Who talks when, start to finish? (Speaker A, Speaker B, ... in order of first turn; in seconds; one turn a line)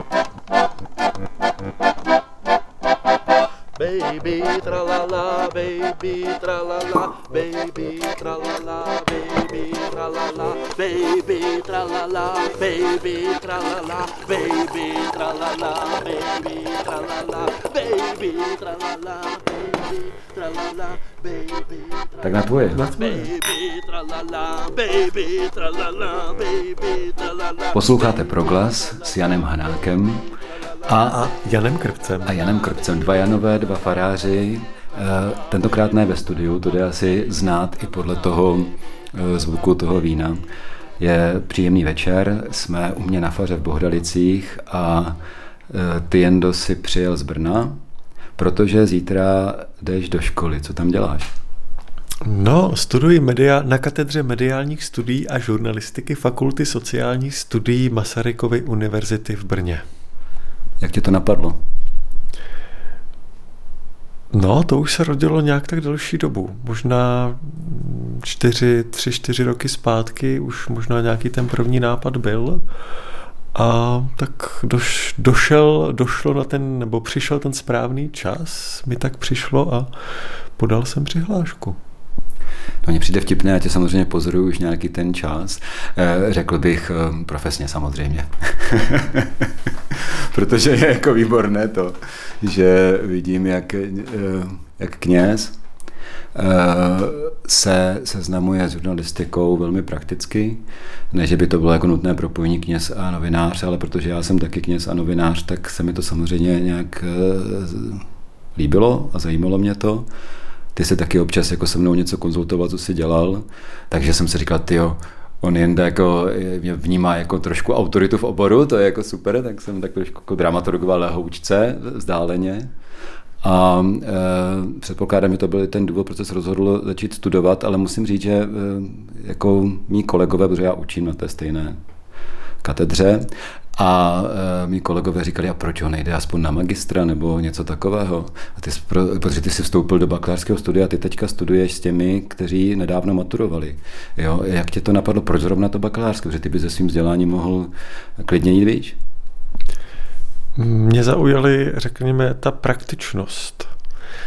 Speaker A: 3.8-22.0
Speaker B: 22.2-22.9
Speaker C: 22.7-23.3
Speaker A: 23.0-27.8
Speaker B: 27.7-30.3
Speaker B: 30.8-31.2
Speaker C: 31.0-32.4
Speaker B: 32.2-40.4
Speaker B: 41.0-45.2
Speaker B: 45.7-47.8
Speaker B: 48.4-51.3
Speaker C: 52.2-59.8
Speaker B: 60.8-61.6
Speaker C: 64.3-72.6
Speaker C: 73.5-79.9
Speaker C: 80.6-81.8
Speaker B: 82.8-95.5
Speaker B: 96.3-110.1
Speaker B: 110.7-122.7
Speaker B: 123.4-131.8
Speaker B: 132.6-149.0
Speaker C: 150.6-153.7